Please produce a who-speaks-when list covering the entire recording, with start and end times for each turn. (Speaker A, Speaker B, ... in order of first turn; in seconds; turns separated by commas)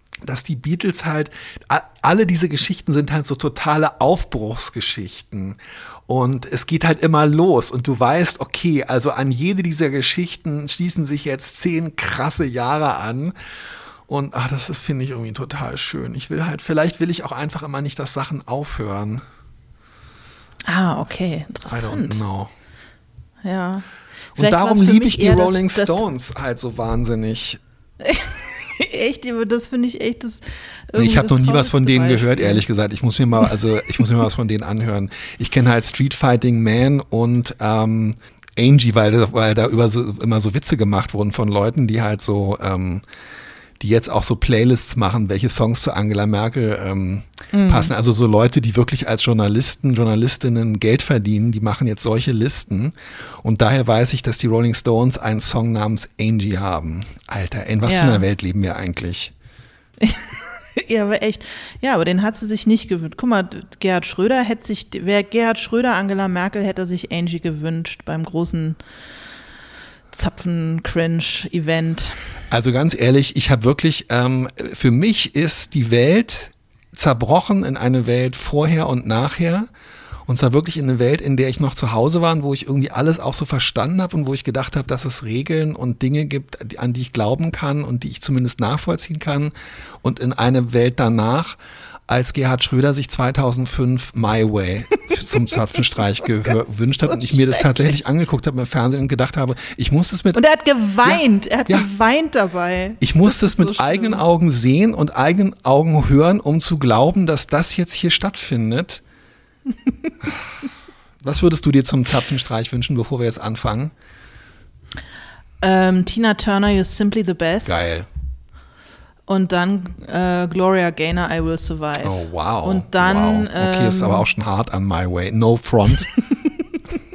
Speaker A: 0.2-13.3, Speaker A: 14.1-19.2, Speaker B: 20.7-22.2, Speaker A: 21.7-22.5, Speaker B: 23.4-26.0, Speaker A: 24.4-27.6, Speaker B: 28.0-32.6, Speaker A: 31.0-43.0, Speaker A: 43.8-59.3, Speaker B: 47.5-47.9, Speaker B: 57.8-58.2, Speaker B: 60.0-68.8, Speaker B: 70.1-72.2, Speaker A: 72.5-79.7, Speaker A: 80.3-91.6, Speaker A: 92.1-100.4, Speaker B: 97.1-98.0, Speaker B: 100.3-104.2, Speaker A: 101.0-101.9, Speaker A: 103.0-109.0, Speaker A: 110.2-110.5, Speaker A: 111.2-113.9, Speaker B: 115.6-117.8, Speaker A: 117.7-118.1, Speaker B: 119.3-124.3, Speaker A: 122.0-126.1